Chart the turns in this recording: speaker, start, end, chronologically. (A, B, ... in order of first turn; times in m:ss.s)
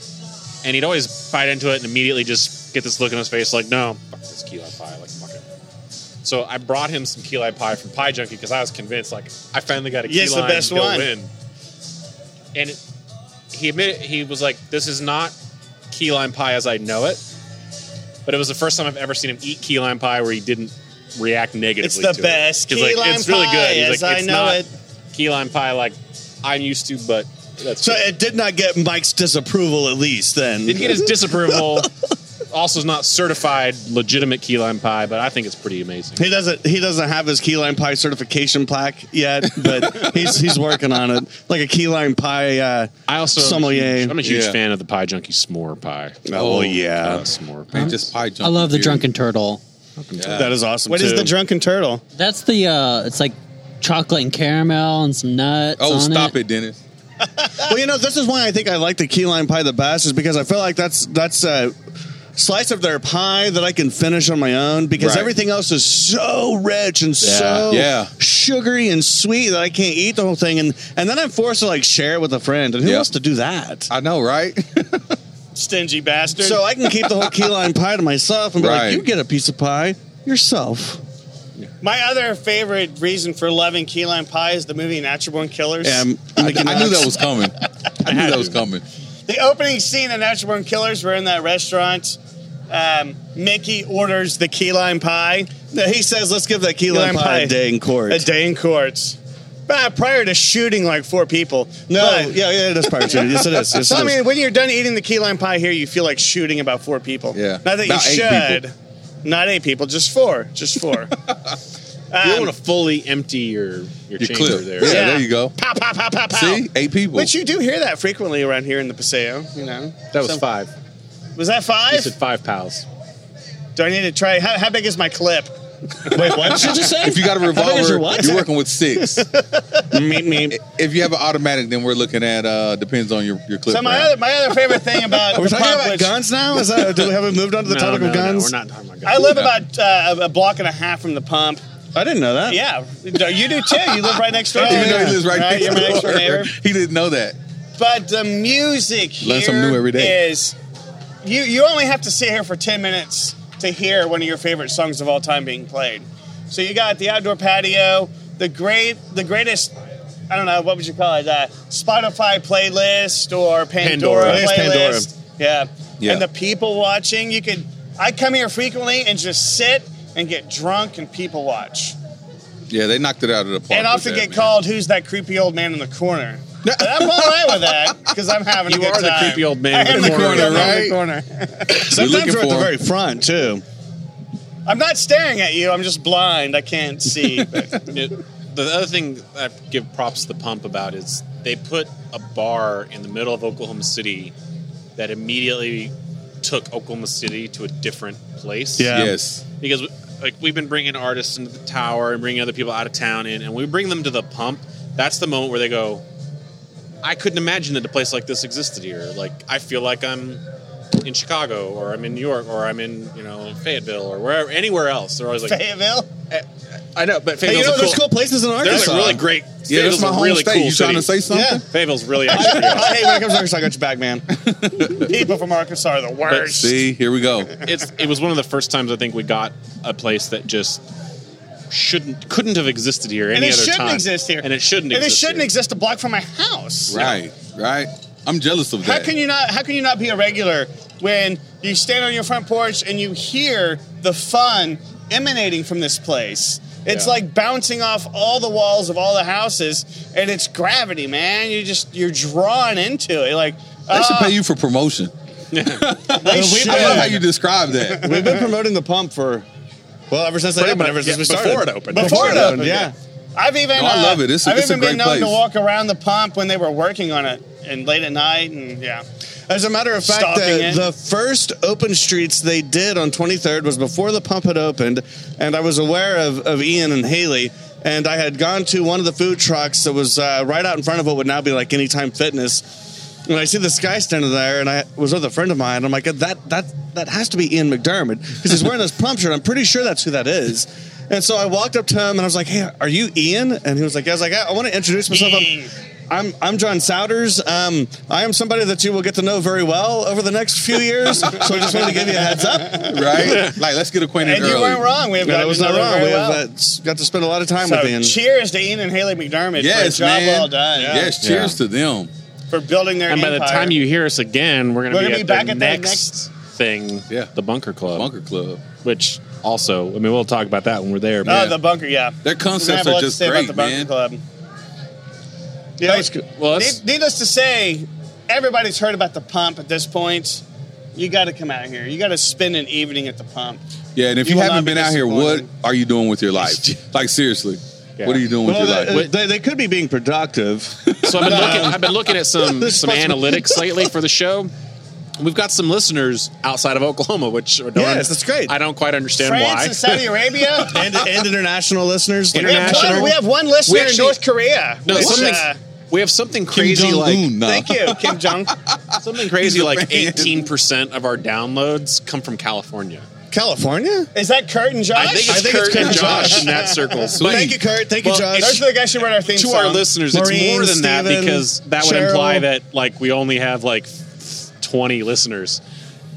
0:00.6-0:05.4 A
0:06.2-0:11.3 A
0:10.0-0:11.1 B
0:12.5-0:12.8 A
0:13.5-0:15.3 A
0:15.9-0:17.2 A
0:18.3-0:28.0 A
0:21.8-0:24.7 B
0:27.8-0:31.2 C
0:30.7-0:31.9 A
0:32.5-0:36.2 A
0:36.2-0:44.2 C
0:43.1-0:48.0 A
0:44.2-0:44.6 D
0:46.3-0:47.2 C
0:46.4-0:46.9 D
0:47.7-0:49.1 D
0:47.7-0:49.6 E
0:50.0-0:50.5 A
0:50.2-0:50.5 D
0:50.4-0:51.4 C
0:50.9-0:52.0 B
0:52.2-0:56.4 E
0:55.8-0:56.8 D
0:57.7-1:01.7 C
1:02.4-1:13.9 C
1:05.0-1:05.3 D
1:07.2-1:07.7 A
1:07.7-1:08.1 D
1:12.8-1:13.1 D
1:13.9-1:15.1 D
1:15.5-1:16.7 B
1:16.4-1:21.0 C
1:18.6-1:19.0 D
1:21.8-1:26.1 B
1:25.8-1:27.1 C
1:26.4-1:28.8 D
1:29.3-1:32.2 B
1:32.7-1:35.7 B
1:35.7-1:38.3 C
1:36.9-1:51.2 B
1:41.9-1:44.2 C
1:47.3-1:48.6 D
1:52.1-1:52.5 B
1:52.2-1:55.1 A
1:54.2-1:55.6 D
1:54.8-2:00.4 B
1:56.3-1:57.3 D
2:00.1-2:00.7 A
2:01.4-2:02.1 B
2:01.9-2:02.8 A
2:03.8-2:05.5 B
2:06.0-2:08.5 B
2:06.3-2:06.9 C
2:06.5-2:09.3 D
2:09.4-2:10.5 B
2:09.9-2:10.5 C
2:10.5-2:14.2 D
2:13.7-2:16.2 B
2:15.3-2:18.5 C
2:17.6-2:19.4 A
2:19.0-2:21.6 B
2:19.2-2:19.5 D
2:22.0-2:22.6 C
2:22.5-2:26.5 B
2:24.6-2:25.2 C
2:24.6-2:27.4 D
2:27.8-2:30.6 B
2:29.2-2:30.2 D
2:31.2-2:39.7 B
2:40.3-2:52.0 B
2:43.8-2:44.5 A
2:44.2-2:45.1 C
2:52.7-2:54.6 D
2:53.7-3:02.1 B
2:56.7-2:57.9 D
2:58.7-3:00.8 A
2:59.9-3:01.0 D
3:01.8-3:02.7 D
3:01.9-3:03.6 C
3:04.7-3:07.8 B
3:07.9-3:14.3 A
3:15.0-3:19.1 A
3:18.8-3:19.1 C
3:18.9-3:19.4 D
3:19.6-3:26.0 A
3:27.0-3:30.4 A
3:31.0-3:35.6 A
3:35.5-3:36.1 B
3:36.3-3:43.0 A
3:37.4-3:39.2 C
3:38.7-3:41.6 D
3:41.3-3:41.6 C
3:42.3-3:43.1 B
3:42.3-3:44.2 C
3:44.6-3:45.1 D
3:44.9-3:46.8 B
3:46.3-3:46.6 A
3:46.5-3:47.5 D
3:47.6-3:50.8 A
3:51.7-3:55.5 A
3:53.3-3:57.1 B
3:56.9-3:59.1 D
3:56.9-3:57.2 A
3:58.8-4:14.4 B
4:13.9-4:15.1 D
4:15.5-4:17.1 A
4:15.7-4:18.2 D
4:16.2-4:17.2 B
4:16.4-4:17.0 C
4:17.8-4:18.5 B
4:18.0-4:19.5 C
4:20.1-4:22.9 C
4:20.6-4:22.9 A
4:21.9-4:29.0 B
4:22.0-4:22.6 D
4:23.7-4:25.4 D
4:29.5-4:42.6 C
4:30.0-4:30.9 B
4:43.3-4:55.5 C
4:55.1-4:55.7 B
4:56.1-5:02.9 C
5:02.8-5:03.1 B
5:02.8-5:05.0 D
5:03.2-5:03.5 A
5:04.2-5:06.4 B
5:05.2-5:08.2 C
5:07.6-5:11.2 B
5:09.6-5:12.1 D
5:11.2-5:11.6 A
5:12.5-5:13.8 B
5:13.1-5:18.1 A
5:14.9-5:16.1 B
5:17.9-5:18.6 D
5:18.8-5:21.6 A
5:21.2-5:24.2 B
5:22.2-5:23.9 D
5:25.8-5:30.4 B
5:25.9-5:26.2 C
5:26.4-5:26.8 A
5:31.0-5:33.6 B
5:34.0-5:39.0 D
5:34.2-5:35.5 B
5:38.0-5:38.3 A
5:38.4-5:43.6 C
5:41.0-5:44.5 A
5:41.1-5:41.7 D
5:45.2-5:50.0 A
5:47.7-5:48.5 C
5:49.2-5:50.8 B
5:50.7-5:53.1 C
5:52.3-5:54.2 A
5:52.4-5:55.6 B
5:54.9-5:57.3 A
5:55.0-5:55.2 D
5:56.5-6:00.5 D
5:57.4-5:58.5 B
5:59.0-6:03.1 A
6:03.3-6:04.1 C
6:04.1-6:07.2 B
6:04.9-6:08.6 A
6:05.1-6:06.5 C
6:07.2-6:08.6 C
6:08.4-6:10.9 B
6:09.2-6:15.6 A
6:10.1-6:11.4 C
6:11.8-6:12.5 B